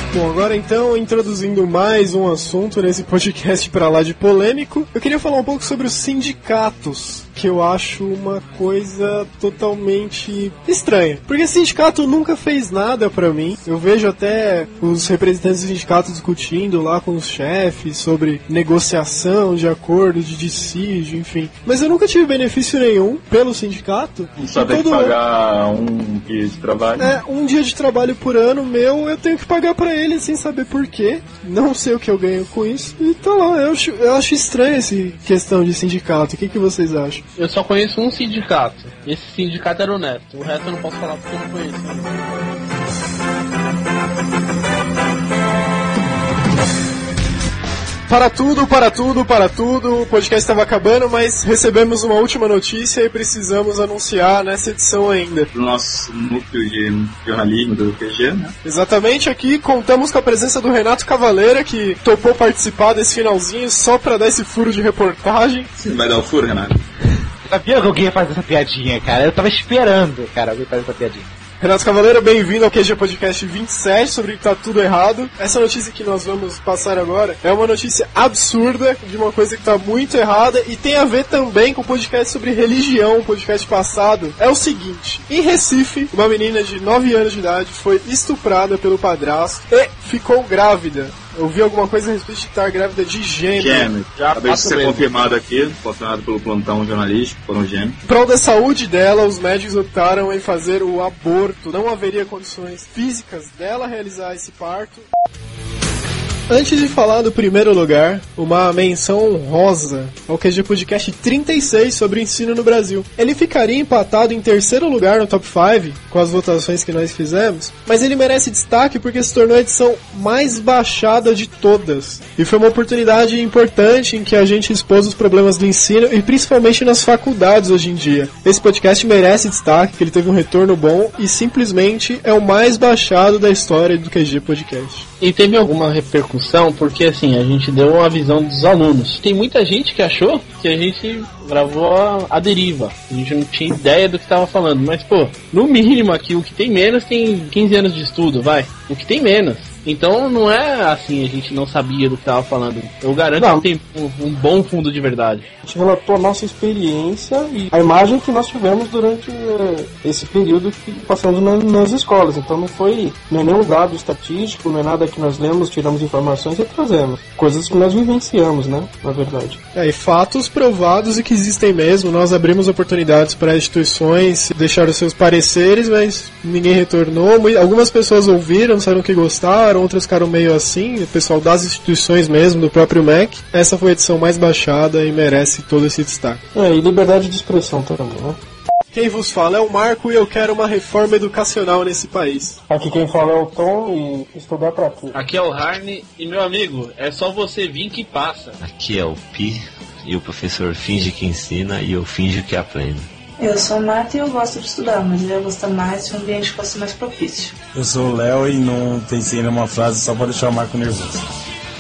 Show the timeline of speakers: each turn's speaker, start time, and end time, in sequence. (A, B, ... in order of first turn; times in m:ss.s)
0:00.1-0:25.2 A
0:24.4-0:27.2 B
0:27.0-0:37.2 A
0:37.4-0:42.2 C
0:48.1-0:55.5 A
0:55.5-0:58.5 B
0:58.6-1:05.7 A
1:05.8-1:06.8 B
1:07.5-1:11.3 D
1:11.6-1:33.9 A
1:33.6-1:38.0 B
1:34.2-1:35.1 C
1:38.0-1:45.1 A
1:46.5-2:15.1 A
2:15.2-2:35.5 C
2:33.4-2:33.7 E
2:35.6-2:49.6 E
2:49.7-3:06.4 A
3:06.5-3:08.4 E
3:08.9-3:12.6 A
3:12.7-3:15.2 E
3:15.1-3:18.6 C
3:18.6-3:23.1 F
3:23.4-3:27.6 G
3:27.8-3:31.2 H